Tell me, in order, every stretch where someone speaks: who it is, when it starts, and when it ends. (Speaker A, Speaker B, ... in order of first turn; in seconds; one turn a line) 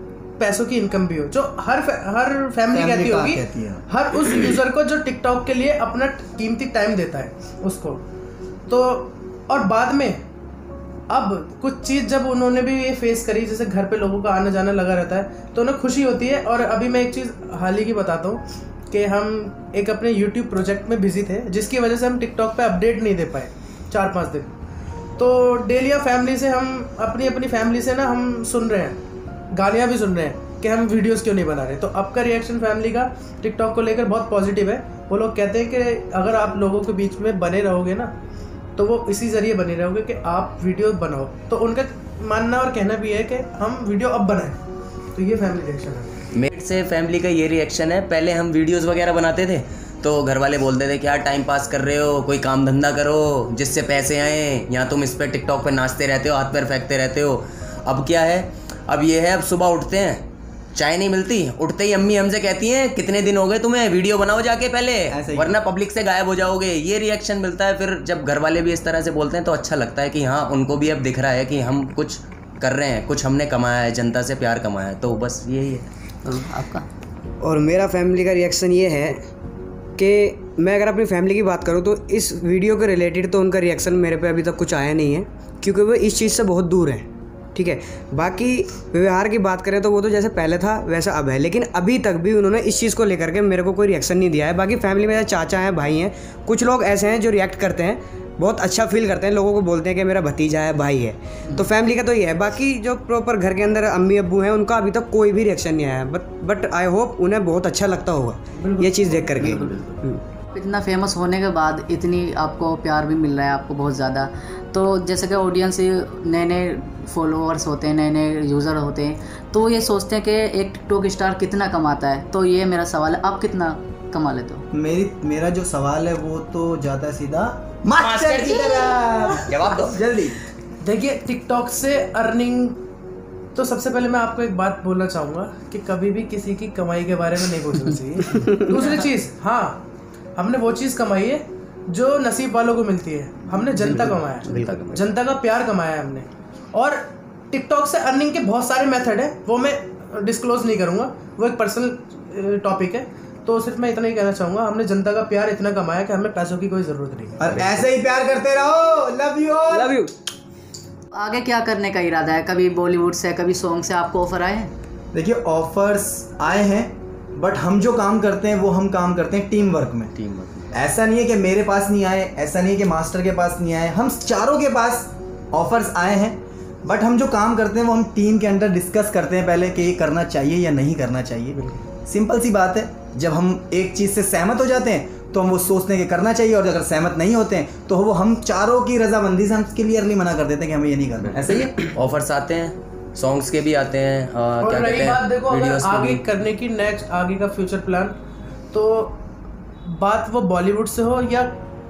Speaker A: 0.4-8.0
Speaker B: 2.7-3.9
Speaker A: 8.7-10.2
Speaker A: 11.1-24.5
Speaker A: 25.2-29.0
Speaker A: 29.5-38.1
Speaker A: 38.8-44.6
Speaker A: 45.2-46.2
Speaker C: 46.3-60.2
Speaker C: 60.7-75.9
Speaker B: 65.1-65.5
Speaker D: 76.2-76.9
Speaker E: 77.4-79.2
Speaker E: 80.0-110.2
Speaker A: 108.6-109.8
Speaker D: 110.5-124.7
Speaker B: 124.7-130.4
Speaker C: 128.0-130.0
Speaker A: 130.8-132.8
Speaker A: 133.6-139.8
Speaker A: 140.4-157.6
Speaker C: 143.6-145.0
Speaker E: 144.5-144.8
Speaker B: 157.4-160.0
Speaker E: 159.7-160.1
Speaker D: 161.1-164.7
Speaker B: 165.1-170.1
Speaker C: 170.2-170.7
Speaker B: 170.7-191.8
Speaker C: 191.3-196.2
Speaker A: 194.6-198.2
Speaker A: 198.7-199.2
Speaker A: 199.8-201.5